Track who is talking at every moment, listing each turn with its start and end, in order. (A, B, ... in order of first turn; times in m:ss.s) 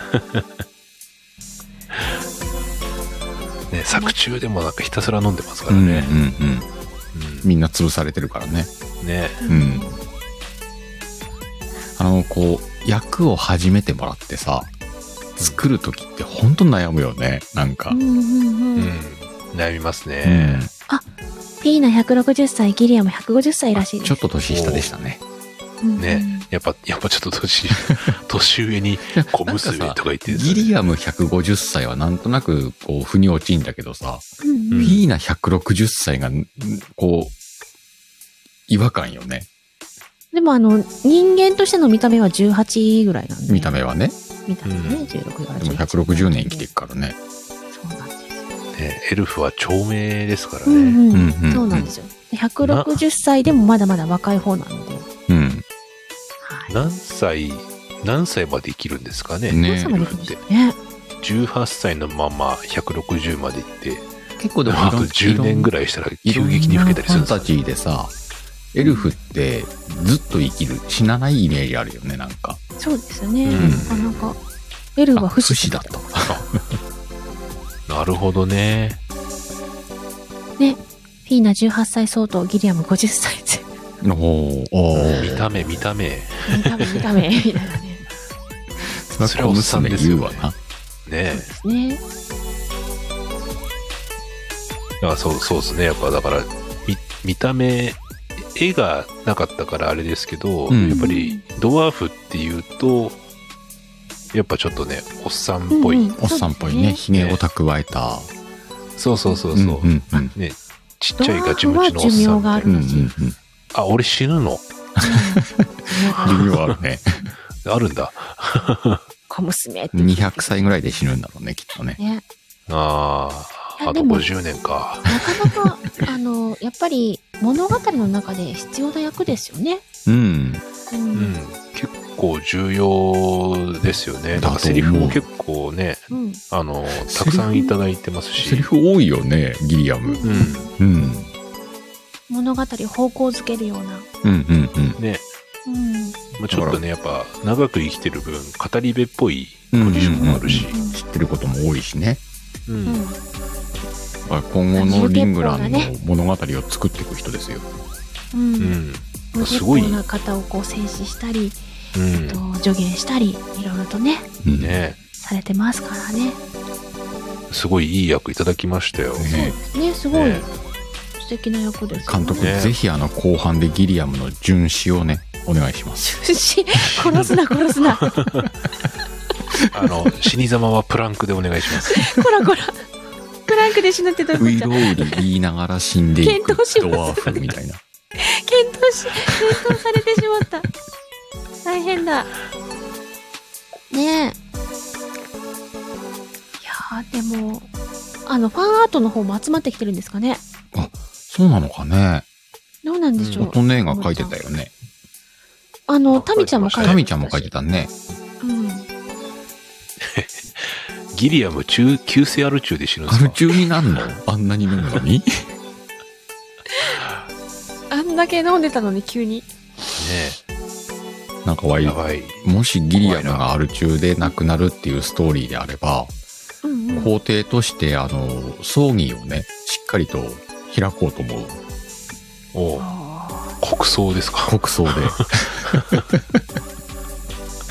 0:00.1-0:00.4 A
0:03.7-0:06.1 A
0:05.7-0:06.7 B
0:07.1-0:07.5 A
0:07.4-0:08.7 B
0:09.0-0:09.4 A
0:09.4-0:10.0 C
0:09.5-0:09.9 B
0:12.0-0:14.7 B
0:15.4-0:18.0 B
0:17.9-0:18.9 C
0:18.8-0:20.7 A
0:20.2-0:20.7 B
0:21.6-0:24.2 C
0:23.8-0:25.2 B
0:24.5-0:24.9 A
0:25.8-0:26.5 C
0:26.0-0:30.7 A
0:29.1-0:34.2 B
0:34.4-0:35.0 C
0:34.7-0:35.0 A
0:34.8-0:37.3 B
0:38.7-0:39.5 B
0:40.3-0:43.7 C
0:43.5-0:44.2 B
0:44.5-0:46.7 C
0:44.6-0:45.1 A
0:45.6-0:47.2 B
0:47.7-0:48.5 C
0:48.8-0:51.0 A
0:50.7-0:55.1 C
0:51.1-0:51.9 B
0:52.6-0:53.0 A
0:55.3-0:55.6 B
0:56.4-0:56.7 C
0:56.7-1:00.4 A
0:59.5-1:00.1 B
0:59.6-1:00.8 C
1:01.2-1:04.1 A
1:04.4-1:05.7 B
1:04.7-1:07.5 A
1:06.2-1:08.1 B
1:08.7-1:12.6 B
1:08.8-1:09.1 C
1:12.8-1:14.4 C
1:13.4-1:14.4 A
1:13.6-1:13.9 B
1:15.0-1:16.0 C
1:15.2-1:16.6 B
1:17.9-1:19.0 A
1:20.6-1:23.7 C
1:24.0-1:25.8 B
1:25.0-1:27.0 A
1:26.5-1:28.0 C
1:28.8-1:30.6 B
1:29.2-1:30.5 A
1:31.1-1:31.5 A
1:31.3-1:32.0 C
1:35.0-1:43.2 A
1:40.7-1:41.1 B
1:40.8-1:41.4 C
1:44.3-1:46.2 A
1:45.7-1:47.0 C
1:46.2-1:48.3 B
1:47.1-1:47.4 A
1:49.0-1:52.8 A
1:49.6-1:50.3 B
1:51.2-1:53.1 C
1:52.6-1:53.4 B
1:53.7-1:54.7 A
1:55.0-1:55.4 B
1:55.0-1:56.4 C
1:56.1-1:56.7 A
1:56.2-1:57.3 B
1:57.6-1:59.0 A
1:59.3-2:00.7 C
1:59.9-2:02.0 B
2:02.0-2:02.2 C
2:02.7-2:05.1 A
2:03.8-2:04.3 C
2:05.1-2:09.8 C
2:10.1-2:10.6 B
2:10.9-2:11.4 C
2:11.2-2:18.7 A
2:14.4-2:15.2 B
2:16.1-2:16.4 C
2:17.0-2:17.5 B
2:18.4-2:21.3 B
2:20.0-2:20.7 C
2:20.2-2:20.7 A
2:22.3-2:24.1 C
2:24.2-2:25.0 B
2:25.0-2:25.3 A
2:25.7-2:26.2 C
2:26.4-2:30.8 A
2:26.5-2:26.8 B
2:29.7-2:32.2 B
2:29.9-2:31.0 C
2:32.7-2:33.0 A
2:32.9-2:33.2 C
2:34.3-2:37.6 B
2:34.8-2:35.9 C
2:38.3-2:38.8 C
2:38.6-2:40.0 A
2:39.3-2:41.6 C
2:41.9-2:42.4 A
2:42.3-2:44.3 C
2:44.4-2:44.8 B
2:44.6-2:45.0 A
2:45.2-2:46.4 C
2:47.5-2:49.3 A
2:49.2-2:49.6 B
2:49.3-2:50.5 C
2:50.1-2:50.5 A
2:51.2-2:52.6 C
2:52.1-2:56.1 B
2:52.4-2:52.7 A
2:56.0-2:58.2 C
2:57.0-2:57.4 A
2:58.0-2:58.5 A
2:59.7-3:02.0 A
3:01.9-3:02.8 C
3:03.5-3:05.2 C
3:04.4-3:07.8 B
3:06.2-3:07.4 C
3:08.2-3:10.7 C
3:11.6-3:12.3 C
3:13.9-3:14.4 C
3:16.6-3:17.7 C
3:18.3-3:20.4 C
3:20.7-3:22.2 B
3:22.8-3:24.4 C
3:23.2-3:23.5 A
3:23.4-3:24.7 B
3:25.9-3:27.5 C
3:26.1-3:27.0 A
3:26.8-3:27.9 B
3:28.4-3:28.9 C
3:30.0-3:34.2 A
3:33.1-3:35.3 B
3:36.7-3:37.0 C
3:37.9-3:39.5 C
3:40.0-3:40.4 A
3:41.4-3:46.1 B
3:41.8-3:42.4 A
3:43.0-3:43.5 A
3:46.6-3:47.1 C
3:46.9-3:51.6 B
3:52.5-3:52.9 A
3:52.8-3:53.6 C
3:53.6-3:56.0 A
3:54.5-3:56.4 B